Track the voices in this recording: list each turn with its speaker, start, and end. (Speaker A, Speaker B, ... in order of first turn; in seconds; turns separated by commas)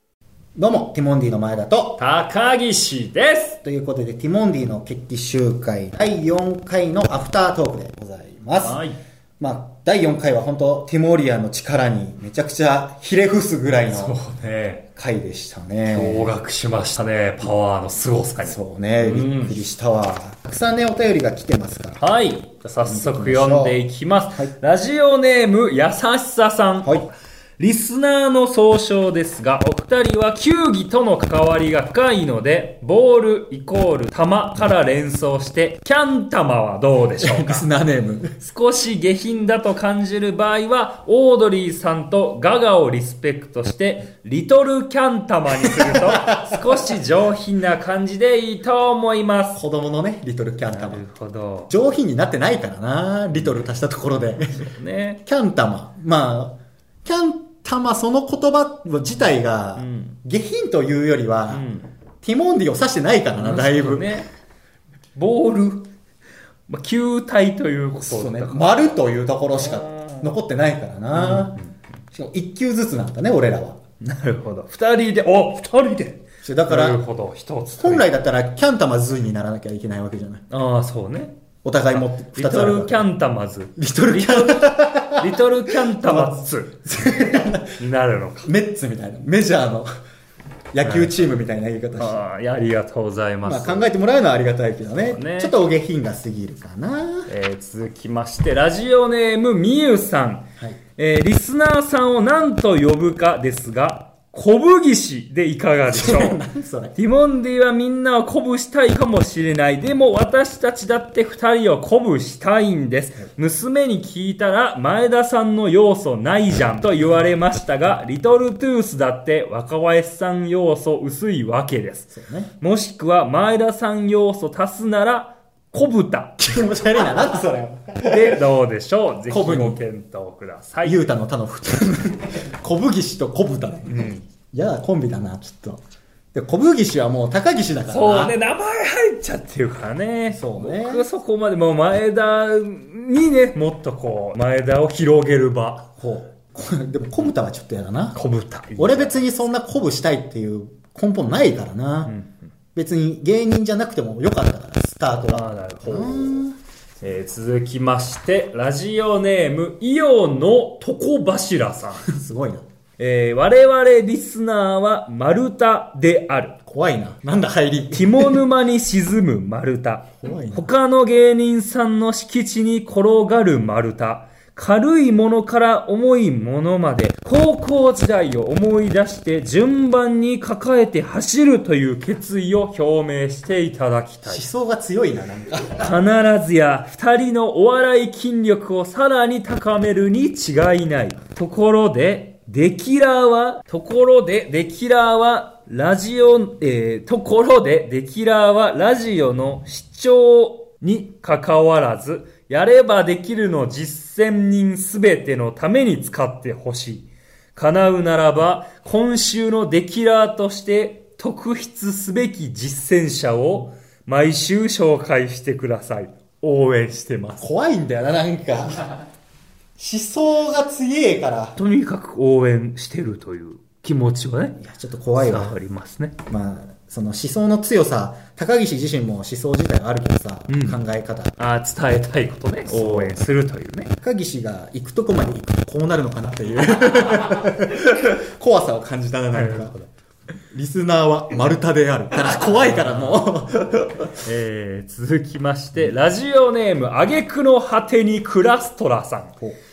Speaker A: 0.6-2.0, Speaker B: 2.0-3.6, Speaker A: 3.6-8.8, Speaker B: 8.6-9.0, Speaker A: 9.4-14.2, Speaker B: 13.9-14.9, Speaker A: 15.0-16.3, Speaker B: 15.9-19.6, Speaker A: 18.4-22.0, Speaker B: 22.0-37.6, Speaker A: 22.8-23.8, Speaker A: 37.2-38.3, Speaker B: 38.4-49.6, Speaker A: 45.6-46.7, Speaker A: 49.5-51.0, Speaker B: 50.7-51.7, Speaker A: 51.7-54.7, Speaker B: 54.6-55.2, Speaker A: 55.3-61.7, Speaker B: 59.8-60.2, Speaker B: 61.5-61.9, Speaker A: 62.2-64.1, Speaker B: 63.4-64.3, Speaker B: 65.2-65.8, Speaker B: 66.7-68.8, Speaker A: 67.9-71.6, Speaker B: 69.6-70.3, Speaker B: 71.1-71.7, Speaker A: 72.1-73.8, Speaker B: 74.0-78.1, Speaker A: 76.4-77.0, Speaker A: 77.8-80.4, Speaker B: 80.5-81.3, Speaker A: 81.6-83.1, Speaker B: 81.9-86.8, Speaker A: 83.8-87.8, Speaker B: 87.8-88.5, Speaker A: 88.4-89.9, Speaker A: 90.7-92.2, Speaker B: 90.8-91.2, Speaker B: 92.0-93.9, Speaker A: 93.4-97.3, Speaker B: 95.0-95.5, Speaker B: 97.3-100.5, Speaker B: 101.0-106.4, Speaker A: 105.9-107.0, Speaker B: 107.0-126.4, Speaker A: 122.1-122.5, Speaker A: 126.4-128.4, Speaker B: 128.0-131.0, Speaker A: 129.3-129.8, Speaker A: 130.8-135.8, Speaker B: 133.9-134.2, Speaker A: 136.3-138.4, Speaker B: 137.9-145.9, Speaker A: 140.3-141.1, Speaker A: 146.0-148.2, Speaker B: 148.1-149.3, Speaker A: 148.8-152.1, Speaker B: 152.1-152.4, Speaker A: 152.8-156.6, Speaker B: 155.3-156.4, Speaker B: 157.0-162.1, Speaker A: 162.1-162.6, Speaker B: 163.0-166.5, Speaker A: 166.7-168.4, Speaker B: 167.9-184.4, Speaker A: 170.2-170.7, Speaker A: 184.2-185.9, Speaker B: 185.8-217.4, Speaker A: 217.4-219.0, Speaker A: 219.8-221.6, Speaker B: 221.6-224.6, Speaker A: 224.6-225.5, Speaker B: 225.2-226.2, Speaker A: 226.3-231.3, Speaker B: 230.5-230.8, Speaker B: 231.4-233.9, Speaker A: 232.7-233.2, Speaker A: 234.0-239.8, Speaker B: 239.3-239.9, Speaker A: 240.5-243.9, Speaker B: 242.3-243.3, Speaker B: 244.2-249.3